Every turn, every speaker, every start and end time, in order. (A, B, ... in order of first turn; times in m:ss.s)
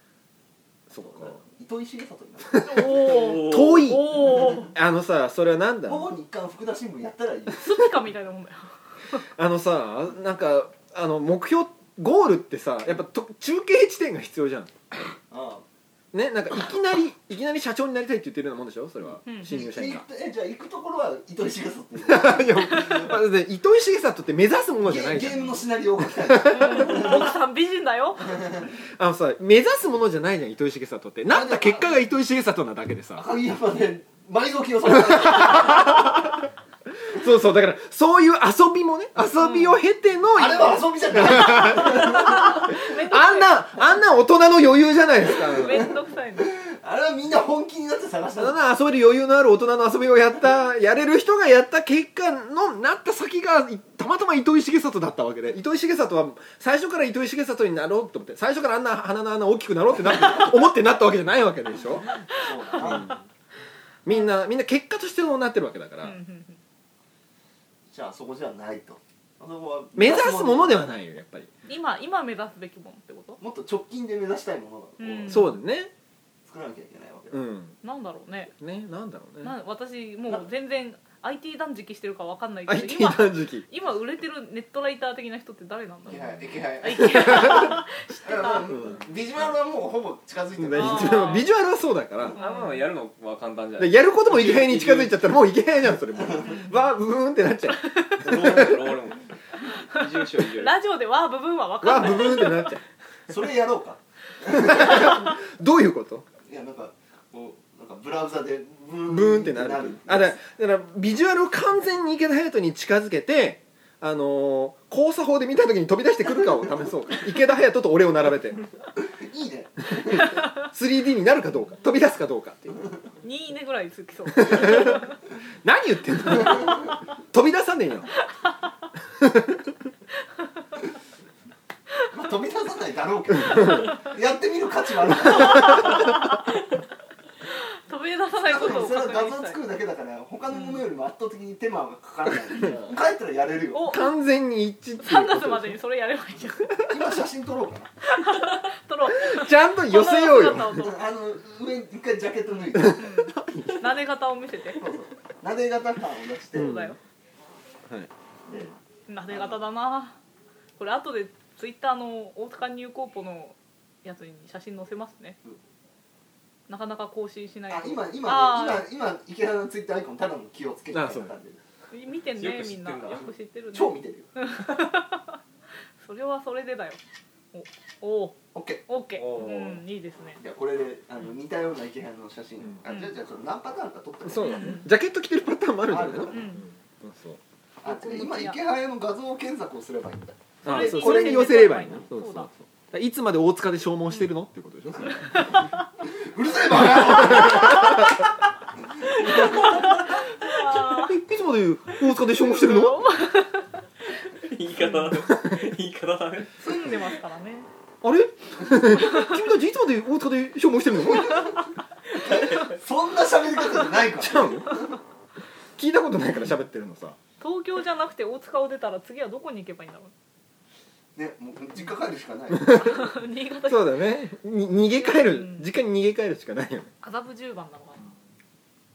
0:00.9-0:01.4 A
0:01.0-0:02.9 B
0:02.6-0:04.7 C
0:02.6-0:06.1 A
0:02.9-0:04.0 D
0:05.8-0:07.8 B
0:07.5-0:08.7 C
0:09.1-0:14.7 A
0:15.3-0:15.6 B
0:16.1-0:20.0 A
0:19.4-0:23.2 B
0:22.0-0:25.4 A
0:24.8-0:27.3 B
0:26.1-0:27.2 A
0:26.4-0:28.4 C
0:28.2-0:28.6 B
0:29.0-0:33.3 A
0:31.3-0:32.0 B
0:33.2-0:36.2 B
0:35.2-0:36.3 A
0:37.1-0:45.9 A
0:39.4-0:39.8 C
0:40.3-0:42.6 B
0:41.9-0:43.8 C
0:45.3-0:46.5 C
0:45.4-0:48.6 B
0:48.4-1:02.2 A
1:02.3-1:03.2 B
1:02.8-1:03.1 A
1:04.0-1:06.2 A
1:06.0-1:06.6 C
1:07.9-1:10.9 B
1:09.9-1:11.5 A
1:11.7-1:13.4 C
1:13.4-1:15.4 B
1:15.0-1:15.6 C
1:15.3-1:15.9 A
1:16.4-1:17.4 B
1:17.3-1:17.8 A
1:17.8-1:18.5 C
1:18.6-1:19.6 A
1:19.4-1:28.8 C
1:22.6-1:23.6 A
1:26.1-1:27.6 B
1:26.9-1:27.8 A
1:28.2-1:31.4 B
1:28.7-1:29.0 A
1:30.6-1:32.4 A
1:30.7-1:31.5 C
1:32.3-1:35.3 D
1:32.3-1:32.8 C
1:33.8-1:38.8 A
1:36.4-1:36.9 C
1:37.8-1:38.3 C
1:38.2-1:39.3 D
1:39.6-1:42.8 C
1:39.9-1:40.8 D
1:41.8-1:42.8 A
1:43.3-1:45.2 B
1:44.5-1:46.2 A
1:46.4-1:50.4 B
1:49.1-1:58.6 A
1:59.0-2:00.5 B
2:00.6-2:02.8 A
2:03.2-2:05.2 C
2:04.3-2:05.0 A
2:05.6-2:08.1 A
2:08.1-2:08.6 C
2:09.2-2:09.6 A
2:12.1-2:16.2 B
2:15.3-2:16.6 C
2:17.5-2:19.6 C
2:18.4-2:24.0 B
2:20.5-2:20.8 C
2:23.7-2:24.2 C
2:23.8-2:25.8 A
2:25.0-2:26.7 C
2:26.9-2:27.9 B
2:28.0-2:30.9 C
2:29.1-2:30.9 A
2:30.8-2:33.3 B
2:32.7-2:33.9 A
2:32.7-2:34.9 C
2:34.7-2:36.8 B
2:36.5-2:37.0 A
2:36.6-2:37.0 C
2:38.5-2:38.7 B
2:39.1-2:40.2 C
2:39.3-2:39.6 B
2:40.8-2:45.4 C
2:46.7-2:48.9 C
2:47.7-2:51.6 B
2:50.9-2:51.3 A
2:51.9-2:55.4 C
2:52.2-2:53.3 D
2:53.7-2:54.3 B
2:56.0-2:57.0 C
2:57.5-2:58.4 C
2:58.5-2:58.8 B
2:58.9-3:00.4 C
2:59.2-2:59.8 A
3:00.4-3:04.8 B
3:02.8-3:03.1 C
3:04.2-3:07.4 A
3:04.4-3:04.9 C
3:05.8-3:06.5 B
3:06.3-3:06.6 C
3:07.8-3:11.5 B
3:07.8-3:08.6 C
3:10.6-3:15.6 A
3:10.6-3:12.5 C
3:15.3-3:15.6 C
3:16.1-3:18.1 B
3:16.8-3:17.9 A
3:19.0-3:19.9 B
3:19.2-3:21.1 C
3:20.6-3:23.1 A
3:22.3-3:23.8 C
3:24.1-3:26.5 D
3:26.6-3:27.7 C
3:26.6-3:27.0 B
3:28.0-3:31.6 A
3:29.0-3:29.4 C
3:31.2-3:31.5 B
3:32.1-3:35.0 B
3:34.1-3:34.7 A
3:35.8-3:37.2 A
3:37.4-3:40.1 C
3:41.2-3:43.0 B
3:42.5-3:43.0 A
3:42.7-3:44.3 C
3:43.6-3:46.9 A
3:45.0-3:45.7 C
3:47.0-3:48.1 C